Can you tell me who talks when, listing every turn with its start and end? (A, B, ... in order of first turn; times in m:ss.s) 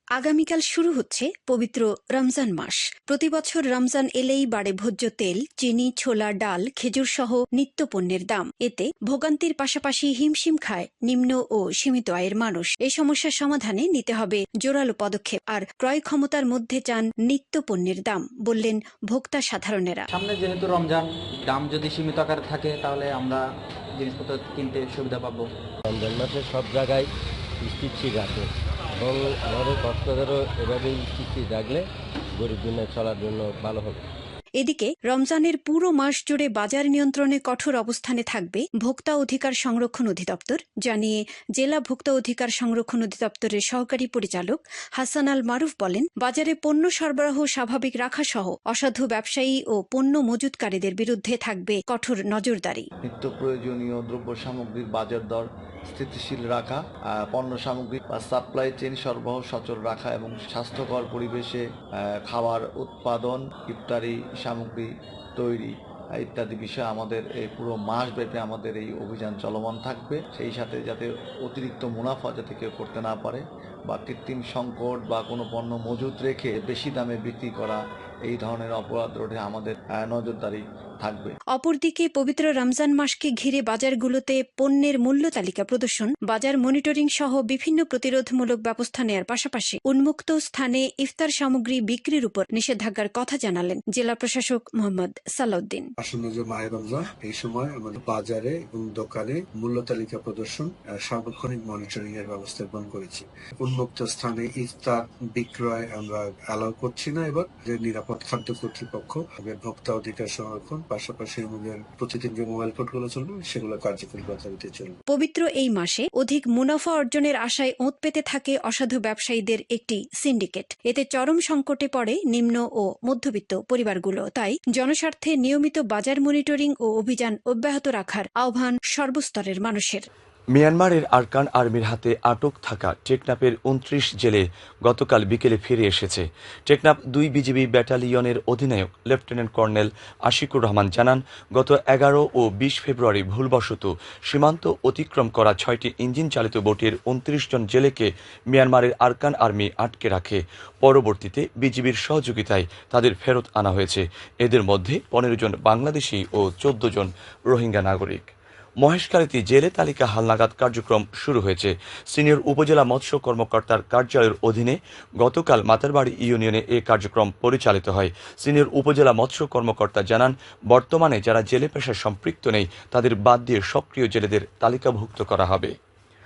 0:00.2-0:20.1 A
0:20.1-0:25.5 B
0:25.9-0:34.0 C
0:34.6-0:52.9 A
0:53.0-1:21.4 D
1:21.5-1:35.9 A
1:36.0-1:55.0 E
1:55.1-2:10.1 A
2:10.6-2:38.3 F
2:38.8-2:55.7 F